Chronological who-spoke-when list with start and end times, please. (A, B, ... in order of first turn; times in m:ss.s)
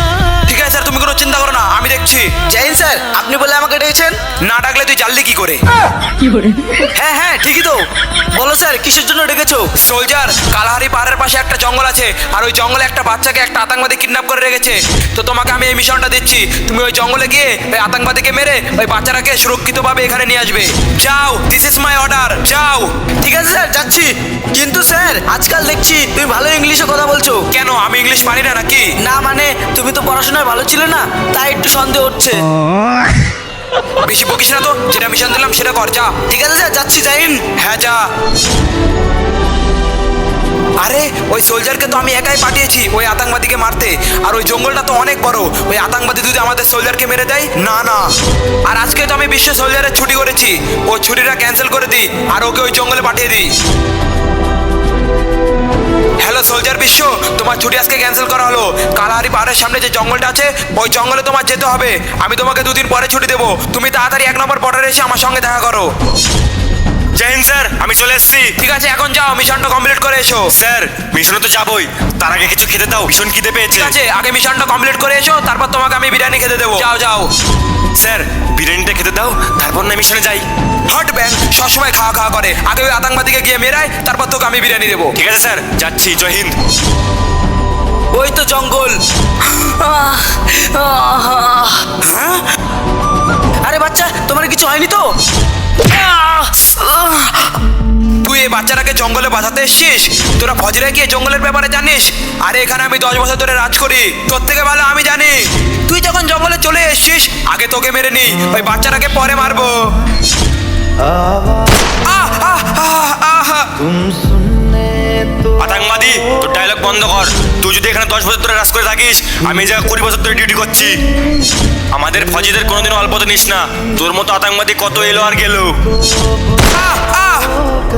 0:00.5-0:02.3 A
0:02.5-0:04.2 B
0:04.4-0:05.6 A
0:06.8-0:09.7 B
0:09.8-0:22.9 A
0:23.2-0:27.4 B
0:27.5-0:28.9 A
0:29.0-0:32.4 B
0:34.0-0:36.1 A
0:36.3-0:37.4 B
0:37.6-0:38.1 A
0:40.8-0:48.1 A
0:48.6-0:53.5 A
0:56.2-1:05.9 A
1:07.2-1:08.5 C
1:08.6-1:10.5 A
1:10.5-1:14.0 C
1:13.7-1:17.3 A
1:18.0-1:20.4 C
1:20.9-1:25.2 A
1:25.2-1:26.6 C
1:28.1-1:32.4 B
1:33.6-1:35.1 B
1:35.8-1:37.6 B
1:38.2-1:49.9 A
1:52.0-1:53.7 A
1:55.6-2:01.0 C
2:01.9-2:05.8 C
2:06.7-2:07.5 A